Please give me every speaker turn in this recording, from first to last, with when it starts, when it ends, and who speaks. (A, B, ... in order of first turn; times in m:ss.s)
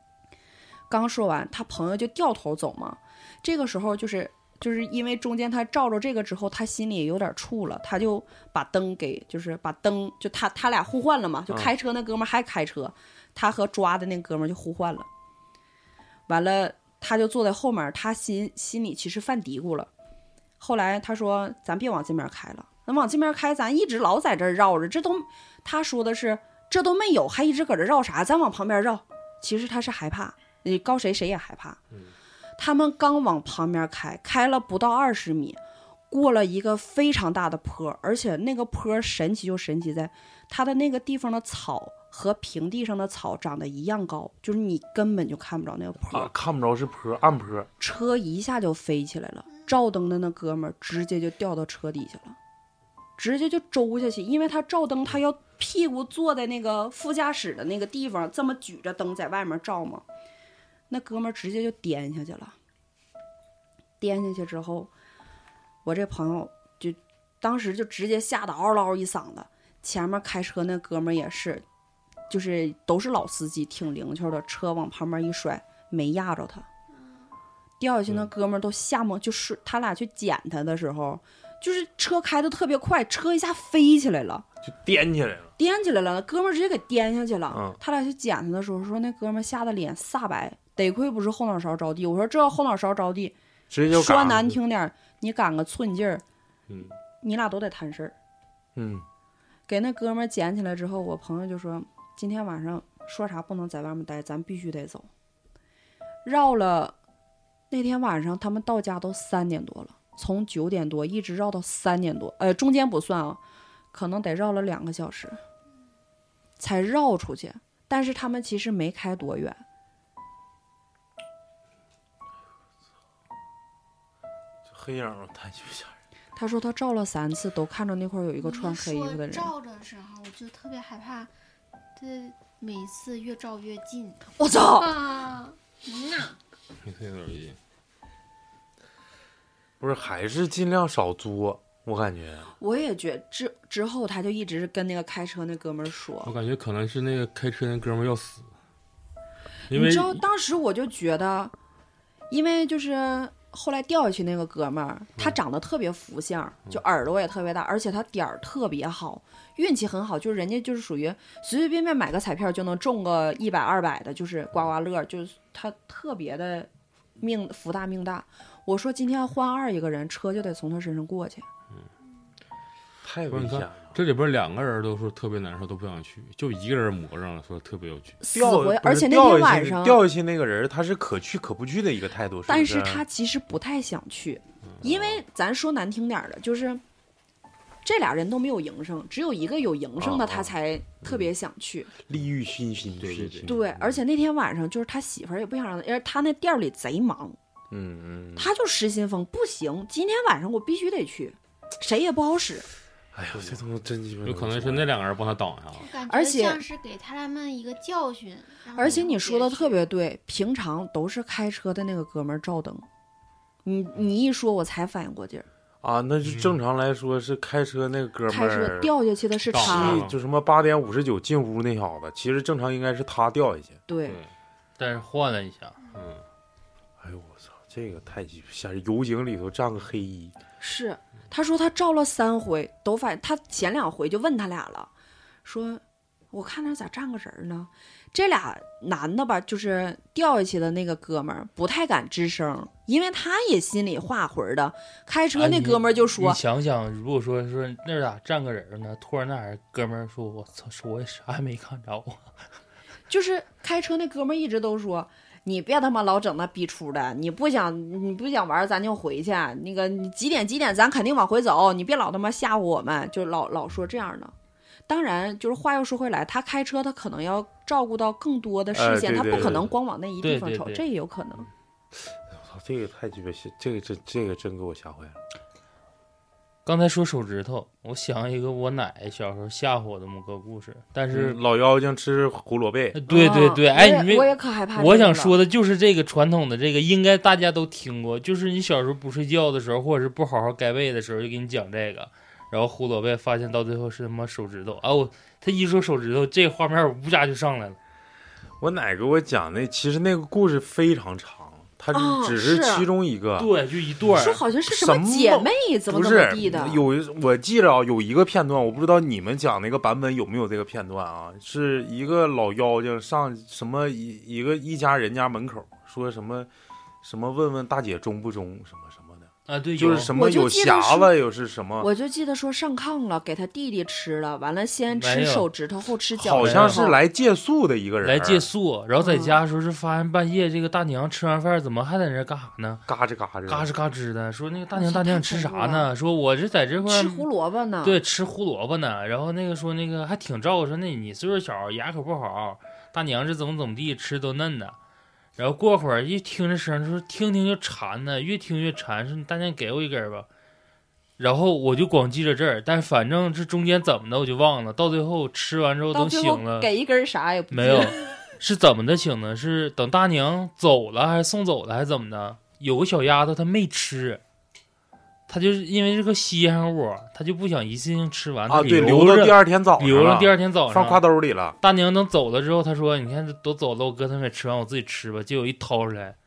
0:00.9-0:15.1 A
0:16.3-0:19.9 A
0:20.6-0:31.8 A
0:32.6-0:35.6 A
0:36.1-0:46.3 A
0:46.1-0:47.7 B
0:47.8-0:52.4 A
0:53.2-1:00.0 A
1:00.9-1:02.6 A
1:04.0-1:04.9 A
1:05.8-1:11.6 A
1:12.3-1:16.7 A
1:17.8-1:24.5 A
1:24.6-1:25.5 B
1:25.6-1:33.4 A
1:27.5-1:27.8 B
1:33.7-1:34.6 B
1:33.9-1:36.2 A
1:37.2-1:38.2 A
1:38.8-1:39.0 B
1:39.7-1:45.1 A
1:46.2-1:47.0 A
1:47.7-1:53.4 A
1:53.9-1:55.4 A
1:56.6-1:59.6 A
2:04.7-2:06.0 B
2:06.4-2:09.5 A
2:08.4-2:11.3 C
2:12.0-2:16.3 C
2:14.4-2:15.0 A
2:16.8-2:17.6 D
2:19.8-2:22.5 B
2:22.6-2:26.3 A
2:26.2-2:28.5 D
2:29.7-2:30.2 D
2:29.7-2:31.5 A
2:32.3-2:51.5 A
2:53.0-2:54.0 B
2:53.3-2:58.2 D
2:58.2-3:00.0 A
2:58.3-3:03.0 B
3:02.5-3:06.8 A
3:07.8-3:11.9 A
3:12.0-3:13.6 B
3:13.0-3:14.0 D
3:13.5-3:17.4 A
3:17.7-3:18.5 B
3:18.4-3:22.7 A
3:23.1-3:24.9 B
3:23.4-3:23.6 D
3:24.2-3:25.9 D
3:25.8-3:29.8 C
3:26.1-3:26.6 A
3:28.8-3:32.9 A
3:33.6-3:35.5 A
3:35.8-3:38.9 B
3:38.3-3:40.0 A
3:39.5-3:40.2 D
3:39.6-3:43.8 B
3:43.9-3:44.2 A
3:44.8-3:45.8 E
3:45.9-3:46.2 D
3:47.0-3:50.3 B
3:50.6-3:54.9 A
3:55.4-4:06.4 A
4:05.4-4:12.2 E
4:13.1-4:24.3 A
4:24.9-4:31.5 A
4:28.7-4:29.7 B
4:30.2-4:30.8 E
4:32.3-4:35.2 B
4:36.6-4:41.4 E
4:41.1-4:43.0 B
4:42.9-4:57.8 E
4:43.1-4:45.4 A
4:58.6-5:03.5 B
5:01.9-5:02.9 A
5:03.4-5:04.4 E
5:04.1-5:06.8 A
5:04.7-5:16.5 B
5:17.0-5:21.9 B
5:19.5-5:20.1 E
5:20.1-5:21.1 A
5:21.8-5:27.0 A
5:24.9-5:25.5 E
5:26.2-5:28.5 B
5:26.3-5:26.9 E
5:28.0-5:32.8 E
5:29.0-5:29.4 A
5:32.9-5:33.7 B
5:33.5-5:37.3 E
5:34.7-5:35.9 A
5:36.9-5:38.0 A
5:37.8-5:44.8 E
5:45.4-5:50.3 E
5:51.2-5:56.7 E
5:55.9-5:58.0 A
5:57.5-6:04.2 E
6:05.3-6:11.0 E
6:08.5-6:11.6 B
6:11.6-6:16.2 E